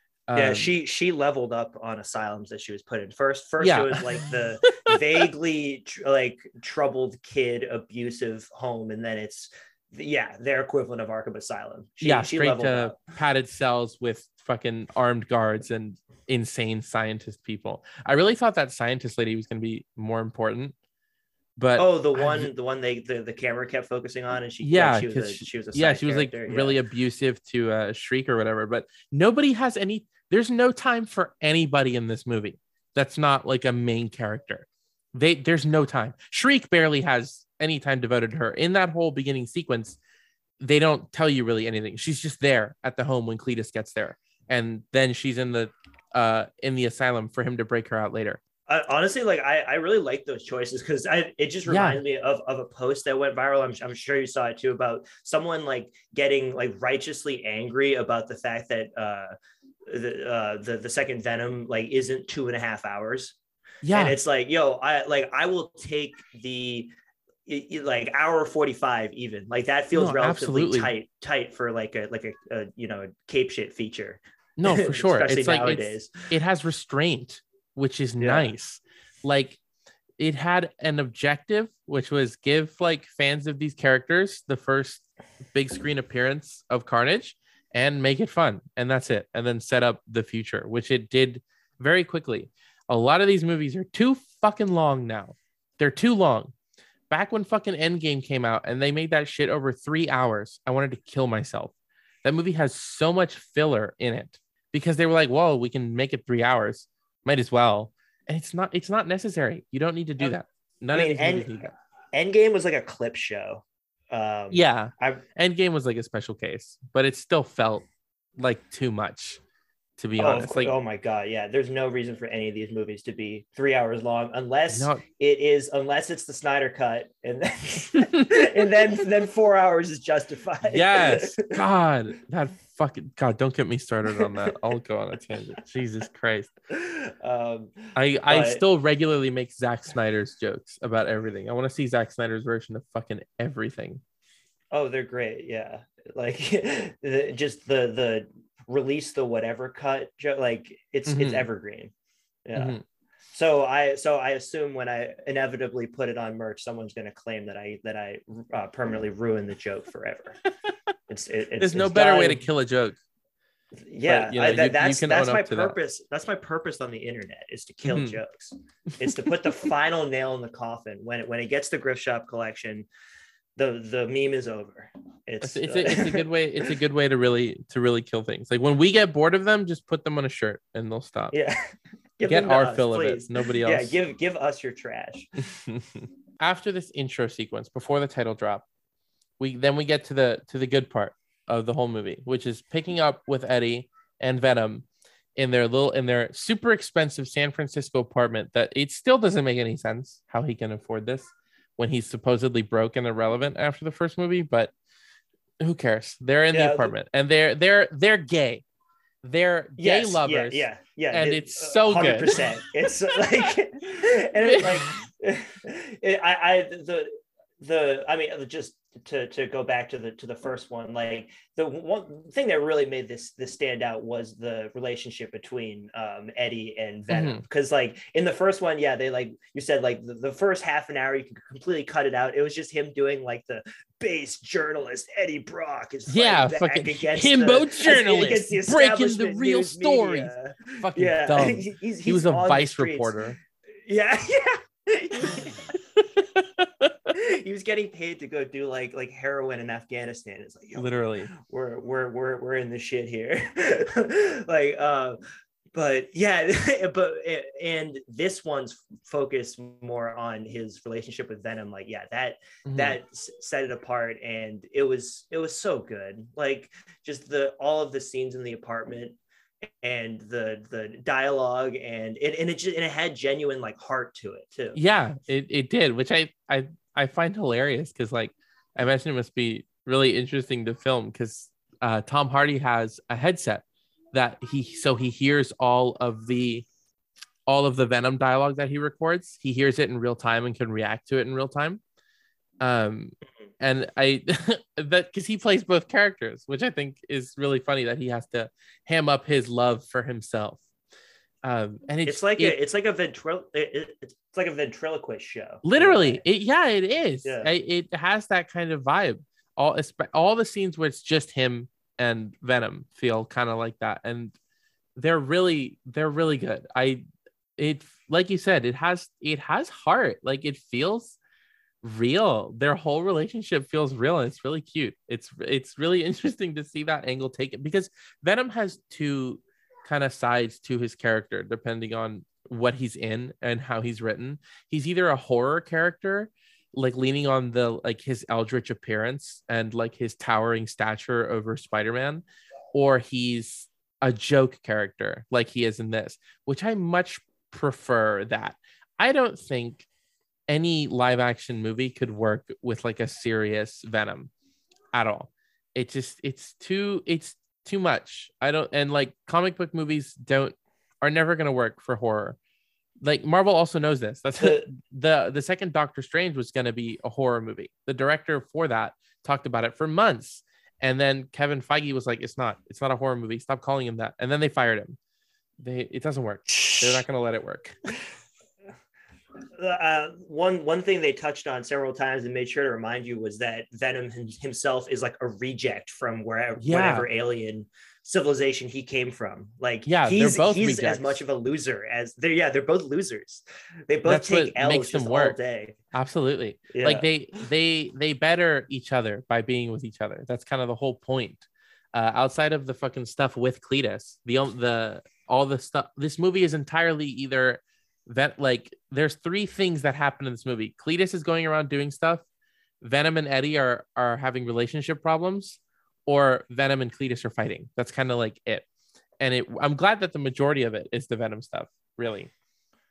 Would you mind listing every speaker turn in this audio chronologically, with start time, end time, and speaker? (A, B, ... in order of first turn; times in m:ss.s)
0:00.3-0:00.7 A
0:00.3-0:13.0 B
0:03.6-0:04.2 A
0:12.0-0:20.7 A
0:21.6-0:22.5 A
0:21.8-0:26.8 B
0:24.6-0:40.0 A
0:40.6-0:48.4 A
0:48.7-0:59.3 B
0:51.7-0:52.0 A
0:59.9-1:03.4 B
1:03.8-1:04.2 A
1:03.9-1:06.9 B
1:07.4-1:16.1 B
1:09.9-1:10.9 A
1:14.6-1:19.6 A
1:18.2-1:18.5 B
1:20.2-1:36.5 A
1:37.1-1:41.7 A
1:42.2-1:51.7 A
1:50.9-1:55.2 B
1:54.5-1:57.8 A
1:58.4-1:59.4 A
2:00.0-2:00.7 A
2:00.2-2:11.5 B
2:04.7-2:05.0 A
2:10.7-2:16.5 A
2:16.7-2:18.6 B
2:17.9-2:24.0 A
2:24.7-2:31.9 B
2:31.0-2:31.5 A
2:32.4-2:32.8 B
2:32.5-2:32.8 A
2:33.3-2:40.4 B
2:41.1-2:42.4 B
2:41.6-2:43.0 A
2:43.7-2:52.9 B
2:44.0-2:45.8 A
2:47.8-2:48.2 A
2:53.6-2:56.7 B
2:55.4-3:01.4 A
3:01.3-3:01.6 B
3:02.2-3:05.4 B
3:02.2-3:04.0 A
3:05.4-3:08.6 A
3:09.4-3:14.8 A
3:15.4-3:24.7 A
3:25.6-3:28.6 A
3:26.5-3:26.9 B
3:29.2-3:32.4 A
3:29.8-4:03.3 B
3:34.4-3:34.9 A
3:47.1-3:47.4 A
3:56.1-4:03.4 A
4:03.8-4:05.7 B
4:06.2-4:07.1 A
4:07.1-4:15.2 B
4:10.8-4:11.3 A
4:15.7-4:34.8 B
4:22.6-4:23.0 A
4:34.7-4:46.6 A
4:47.5-4:51.8 A
4:52.6-5:00.6 A
5:01.4-5:02.6 A
5:02.0-5:06.2 B
5:05.6-5:14.4 A
5:07.2-5:07.5 B
5:15.0-5:17.0 A
5:17.6-5:21.2 A
5:21.8-5:49.9 A
5:50.5-5:54.3 A
5:54.9-6:02.4 A
6:03.0-6:15.0 A
6:04.4-6:04.7 B
6:15.6-6:17.8 A
6:16.5-6:17.0 B
6:19.6-6:35.8 B
6:26.6-6:27.0 A
6:29.8-6:31.2 A
6:34.0-6:35.4 A
6:35.9-6:52.2 A
6:36.7-6:37.1 B
6:52.8-6:58.6 A
6:59.2-7:02.3 A